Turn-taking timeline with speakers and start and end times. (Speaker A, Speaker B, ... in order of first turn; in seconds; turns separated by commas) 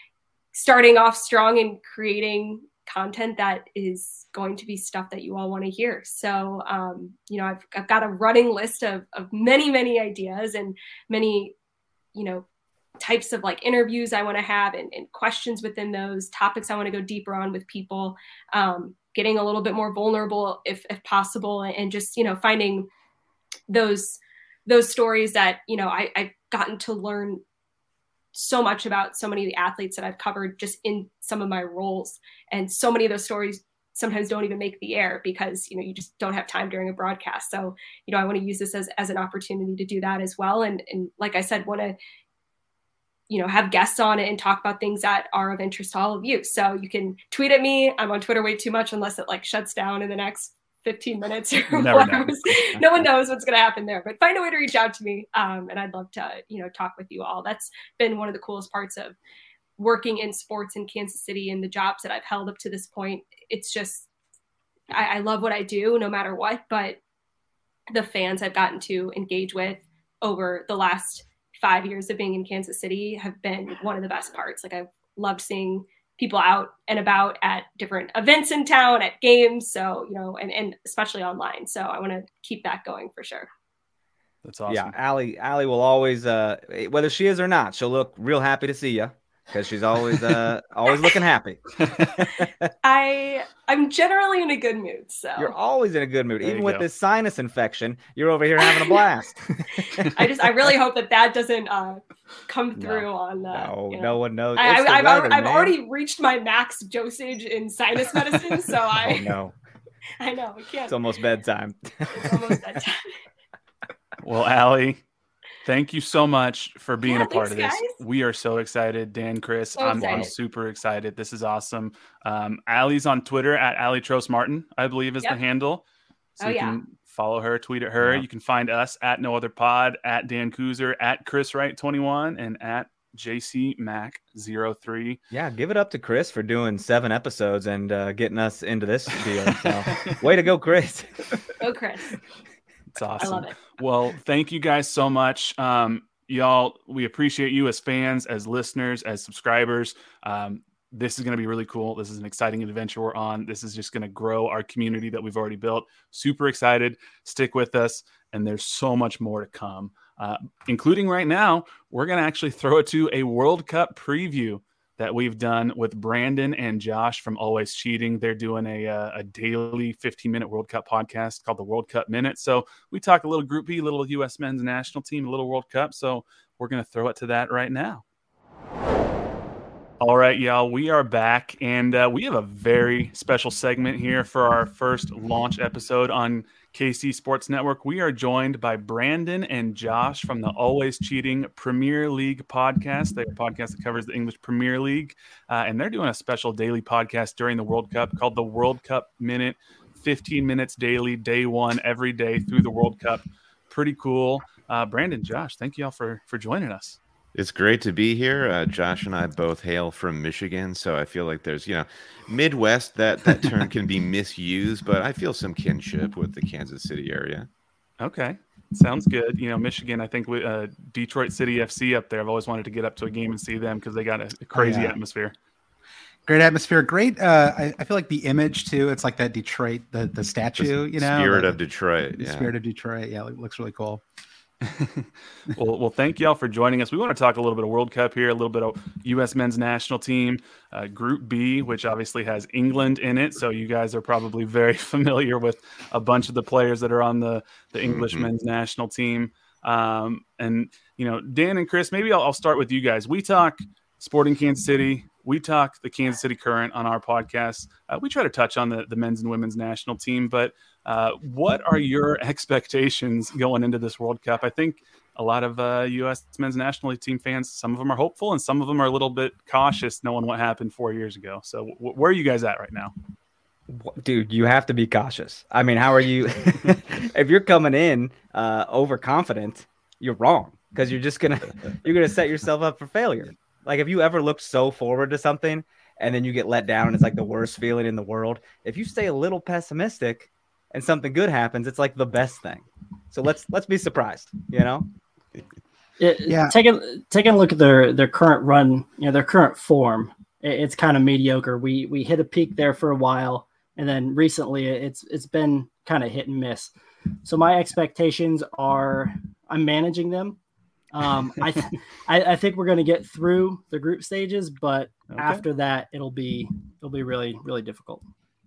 Speaker A: 0.5-11.5, Speaker A: 12.2-12.4, Speaker A: 13.0-22.9, Speaker A: 23.7-27.4, Speaker A: 28.3-42.0, Speaker A: 43.3-59.2, Speaker B: 51.7-52.7, Speaker A: 59.8-64.1, Speaker A: 64.9-67.0, Speaker A: 67.9-83.5, Speaker B: 84.4-85.0, Speaker C: 84.7-92.7, Speaker A: 92.8-95.5, Speaker C: 95.4-100.1, Speaker B: 96.4-96.8, Speaker A: 100.0-109.3, Speaker C: 102.8-105.7, Speaker C: 108.9-109.5, Speaker A: 110.2-111.0, Speaker C: 110.9-112.4, Speaker A: 112.1-113.1, Speaker B: 114.2-115.0, Speaker B: 115.6-125.8, Speaker A: 117.0-117.9, Speaker A: 119.8-120.3, Speaker B: 126.4-135.2, Speaker A: 126.4-126.8, Speaker C: 128.0-128.2, Speaker C: 135.3-141.4, Speaker A: 141.6-142.2, Speaker B: 143.0-178.0, Speaker A: 143.2-143.6, Speaker B: 180.0-207.0, Speaker D: 207.4-217.5, Speaker B: 218.0-225.3, Speaker E: 224.5-225.0, Speaker E: 226.3-234.0, Speaker D: 230.6-232.6, Speaker B: 234.6-272.9, Speaker D: 247.8-248.3, Speaker C: 273.7-294.9, Speaker F: 296.0-306.7, Speaker E: 296.3-296.6, Speaker F: 307.2-310.4, Speaker F: 310.9-318.1, Speaker B: 315.1-315.4